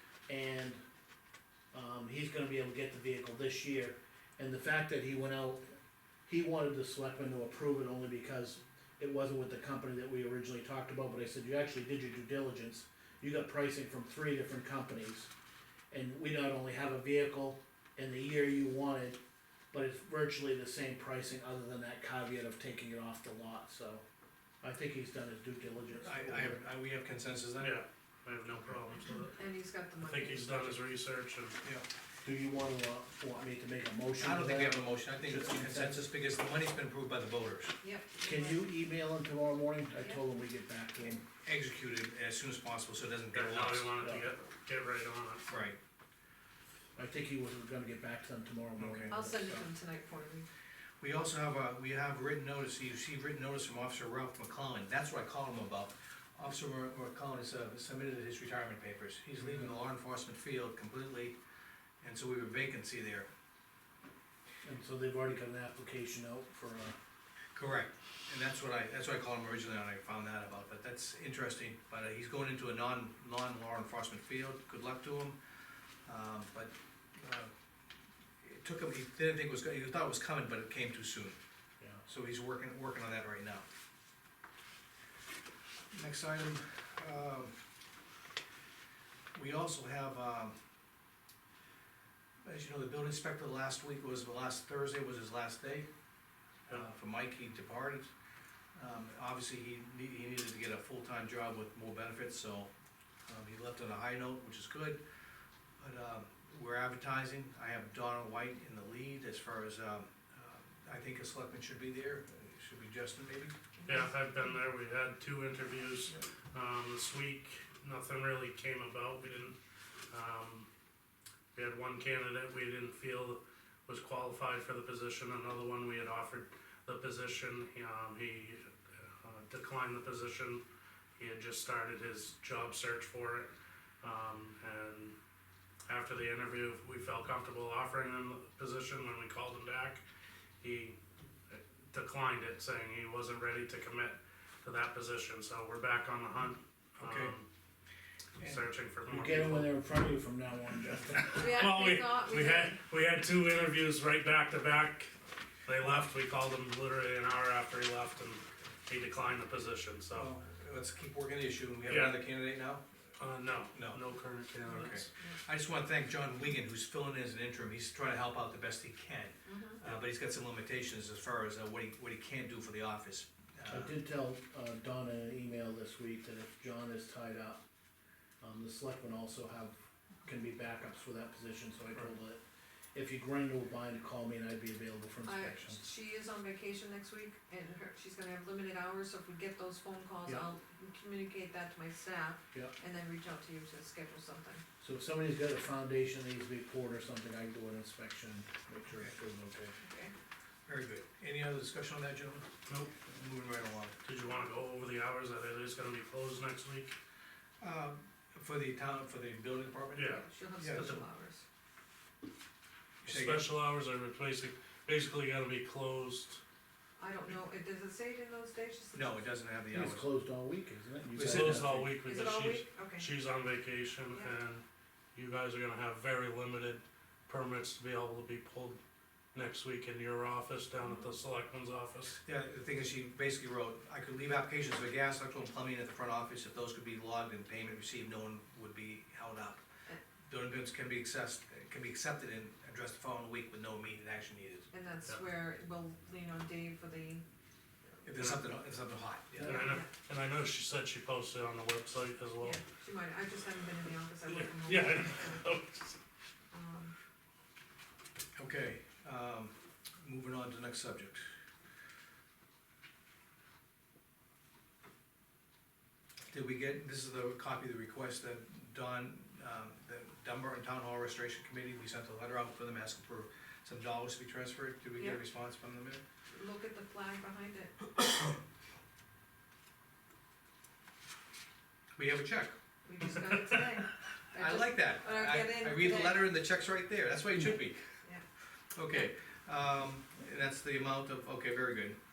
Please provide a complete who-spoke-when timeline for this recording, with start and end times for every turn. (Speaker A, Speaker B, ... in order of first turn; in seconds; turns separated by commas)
Speaker A: 0.3-0.8, Speaker A: 1.7-5.7, Speaker A: 6.3-15.3, Speaker A: 15.9-19.2, Speaker A: 19.7-24.0, Speaker A: 24.6-26.6, Speaker B: 26.0-27.8, Speaker C: 27.6-29.4, Speaker D: 29.4-30.8, Speaker C: 30.0-31.6, Speaker A: 32.2-36.0, Speaker B: 34.2-37.7, Speaker D: 37.8-38.6, Speaker A: 38.2-41.2, Speaker B: 41.4-43.9, Speaker C: 43.3-45.5, Speaker A: 44.0-44.2, Speaker B: 45.5-45.8, Speaker A: 47.0-49.7, Speaker B: 48.8-49.1, Speaker D: 49.1-50.5, Speaker B: 51.0-61.4, Speaker A: 59.4-59.7, Speaker B: 62.0-63.3, Speaker A: 64.6-67.0, Speaker B: 67.5-75.4, Speaker B: 76.1-77.5, Speaker B: 78.4-81.4, Speaker B: 82.1-83.7, Speaker B: 85.9-87.5, Speaker B: 89.3-90.5, Speaker B: 92.5-95.9, Speaker B: 96.7-98.1, Speaker B: 98.8-102.7, Speaker B: 103.3-105.0, Speaker B: 105.8-113.5, Speaker C: 113.9-119.6, Speaker C: 120.1-120.7, Speaker C: 121.5-130.6, Speaker C: 131.2-135.2, Speaker C: 135.9-140.0, Speaker C: 140.6-141.0, Speaker C: 141.5-147.5, Speaker B: 147.0-147.3, Speaker B: 148.4-148.6, Speaker C: 148.4-149.8, Speaker A: 149.1-151.7, Speaker D: 151.3-152.8, Speaker C: 151.3-155.1, Speaker C: 155.7-160.3, Speaker B: 160.1-162.8, Speaker C: 161.9-162.2, Speaker C: 163.2-165.1, Speaker B: 163.7-164.0, Speaker B: 164.7-173.9, Speaker D: 169.5-169.8, Speaker A: 173.7-177.6, Speaker A: 178.4-182.4, Speaker A: 182.9-185.8, Speaker D: 185.2-194.6, Speaker A: 194.8-199.8, Speaker D: 199.8-200.1, Speaker B: 200.7-202.5, Speaker B: 203.1-203.9, Speaker C: 204.1-206.9, Speaker B: 207.6-211.0, Speaker C: 210.0-210.2, Speaker D: 210.1-211.4, Speaker C: 213.0-216.4, Speaker B: 213.1-213.5, Speaker D: 217.0-219.2, Speaker B: 218.9-220.1, Speaker A: 219.7-221.9, Speaker B: 221.2-221.6, Speaker C: 221.2-224.6, Speaker D: 222.1-223.1, Speaker C: 225.2-228.8, Speaker C: 229.3-232.2, Speaker D: 230.8-231.1, Speaker B: 232.2-239.6, Speaker B: 240.3-244.7, Speaker D: 244.7-247.2, Speaker B: 248.0-249.7, Speaker C: 248.2-248.4, Speaker C: 249.4-252.6, Speaker D: 249.4-249.9, Speaker D: 252.4-255.4, Speaker C: 254.3-256.0, Speaker D: 256.5-256.9, Speaker B: 258.4-261.3, Speaker B: 266.3-276.0, Speaker D: 276.3-277.9, Speaker B: 282.0-282.6, Speaker D: 282.9-286.3, Speaker B: 284.4-287.8, Speaker B: 288.8-292.0